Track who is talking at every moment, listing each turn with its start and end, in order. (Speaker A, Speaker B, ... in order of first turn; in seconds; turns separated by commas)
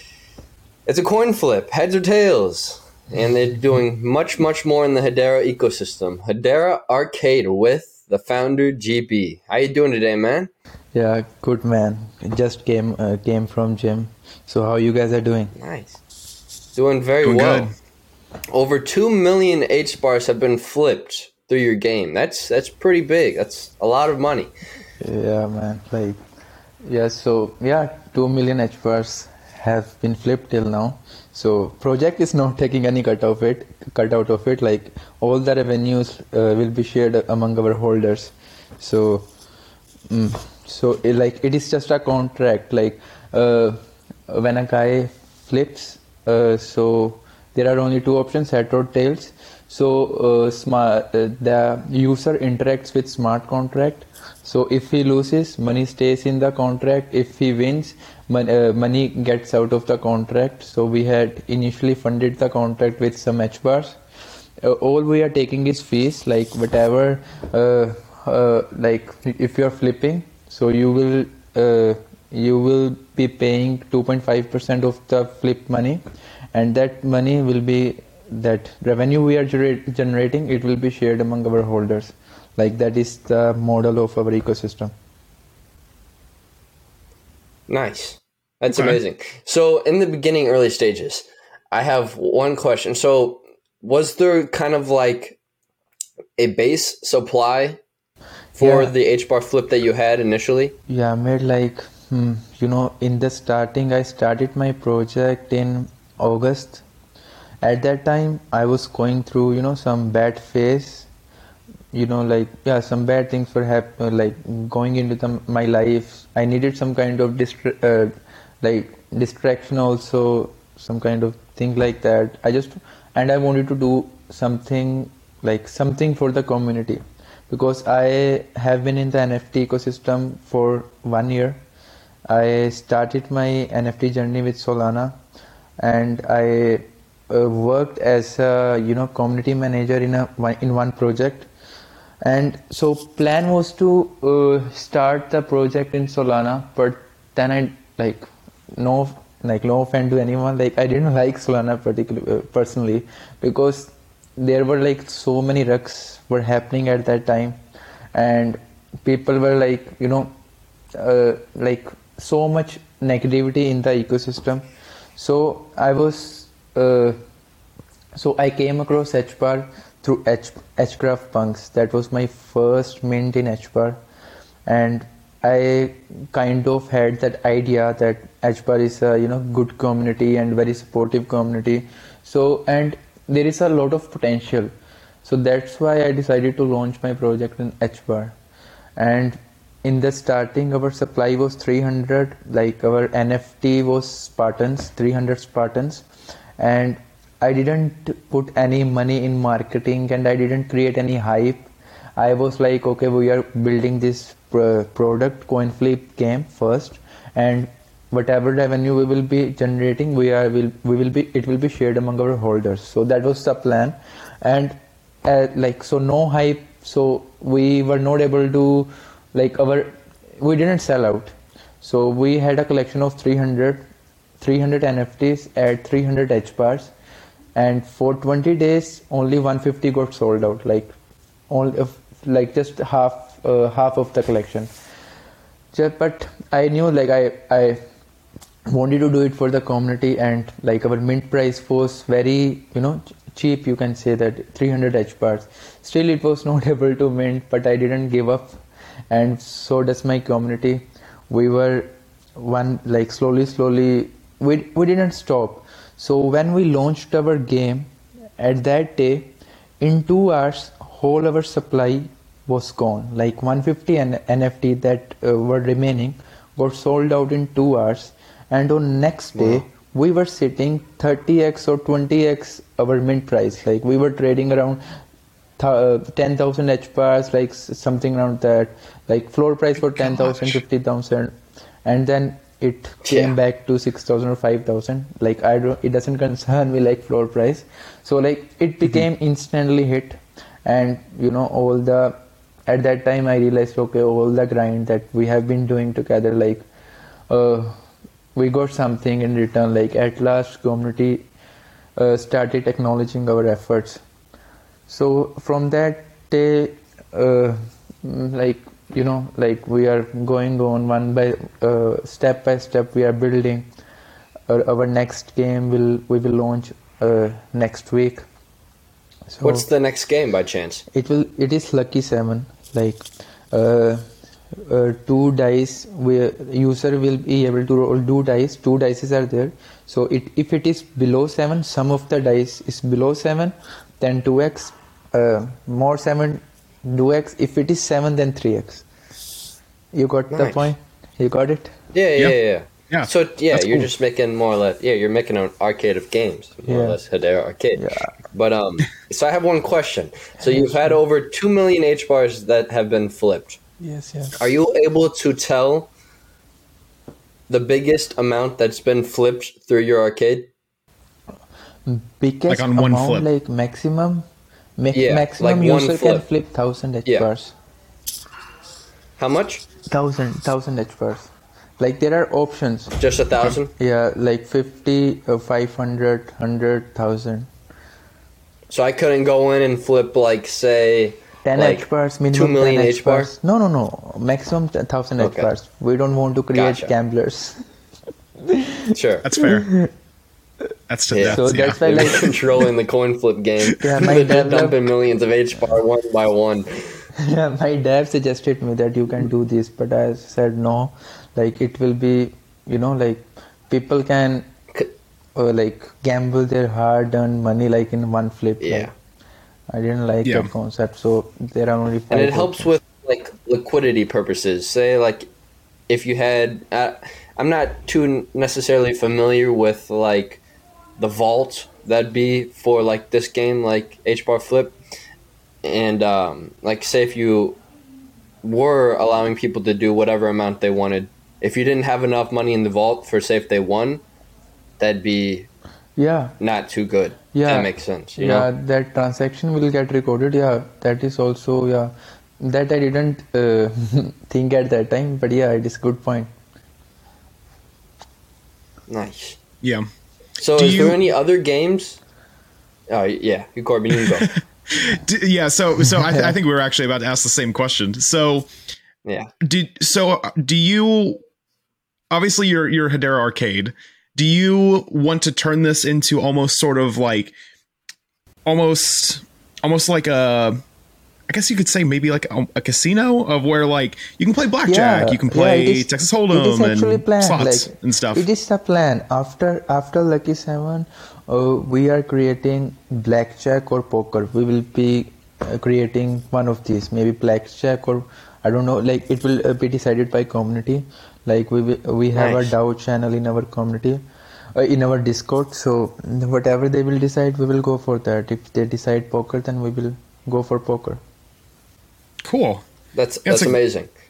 Speaker A: 0.9-10.5, Speaker B: 10.9-15.5, Speaker A: 15.6-16.0, Speaker A: 16.8-17.7, Speaker C: 17.2-17.7, Speaker A: 18.5-24.5, Speaker B: 25.0-26.2, Speaker B: 26.9-39.3, Speaker B: 40.1-64.0, Speaker B: 64.6-76.0, Speaker B: 76.5-84.9, Speaker A: 87.7-95.4, Speaker C: 88.7-89.0, Speaker A: 96.4-97.8, Speaker A: 98.6-100.8, Speaker B: 98.6-98.9, Speaker B: 100.9-106.8, Speaker B: 107.6-111.1, Speaker B: 111.9-131.6, Speaker B: 132.3-135.2, Speaker B: 135.8-141.5, Speaker B: 142.2-157.6, Speaker B: 158.1-160.3, Speaker B: 160.9-167.2, Speaker B: 168.2-174.0, Speaker B: 174.7-184.7, Speaker B: 185.2-188.4, Speaker B: 189.0-196.1, Speaker B: 196.6-223.9, Speaker B: 224.4-226.9, Speaker B: 227.6-230.9, Speaker B: 231.5-234.7, Speaker B: 235.7-237.8, Speaker B: 238.7-274.8, Speaker A: 269.4-269.6, Speaker B: 275.6-296.6, Speaker C: 280.0-280.6, Speaker A: 283.0-283.4, Speaker B: 297.3-297.8, Speaker B: 298.4-301.3, Speaker B: 302.0-304.0, Speaker B: 304.9-313.7, Speaker B: 314.5-318.2, Speaker B: 319.3-319.7, Speaker A: 319.4-320.8, Speaker B: 320.9-338.9, Speaker B: 339.9-341.8, Speaker A: 340.3-340.7, Speaker A: 341.9-353.6, Speaker C: 342.9-343.9, Speaker B: 346.7-347.0, Speaker B: 347.8-348.1, Speaker B: 350.4-351.0, Speaker B: 353.8-354.4, Speaker A: 354.4-355.9, Speaker A: 357.5-360.5, Speaker B: 361.9-364.3, Speaker C: 362.5-363.3, Speaker B: 364.8-367.6, Speaker A: 364.9-366.2, Speaker A: 369.2-369.6, Speaker B: 369.9-373.0, Speaker A: 373.0-373.7, Speaker B: 373.8-377.5, Speaker A: 378.7-383.3, Speaker B: 381.4-387.6, Speaker A: 385.2-385.5, Speaker A: 386.5-386.9, Speaker B: 388.4-389.9, Speaker A: 388.9-389.3, Speaker C: 389.2-389.7, Speaker C: 390.9-391.8, Speaker A: 391.1-397.0, Speaker B: 391.3-392.4, Speaker B: 393.8-394.8, Speaker B: 397.2-404.5, Speaker B: 405.4-408.9, Speaker A: 408.6-408.9, Speaker B: 409.7-412.7, Speaker C: 410.2-410.5, Speaker A: 412.1-415.3, Speaker A: 415.9-420.4, Speaker A: 421.0-424.8, Speaker A: 425.6-427.6, Speaker A: 428.4-434.0, Speaker A: 434.8-435.5, Speaker B: 436.0-436.4, Speaker A: 436.4-438.5, Speaker B: 437.3-446.3, Speaker A: 448.9-449.4, Speaker A: 450.4-452.0, Speaker C: 450.6-451.0, Speaker A: 452.9-454.3, Speaker C: 454.2-458.5, Speaker B: 455.8-456.4, Speaker A: 459.1-459.3, Speaker C: 459.4-461.2, Speaker C: 462.1-467.3, Speaker C: 468.4-470.6, Speaker C: 471.3-478.2, Speaker B: 474.7-494.0, Speaker A: 492.1-492.5, Speaker B: 494.6-501.0, Speaker C: 502.2-502.6, Speaker A: 502.9-503.9, Speaker C: 503.3-503.6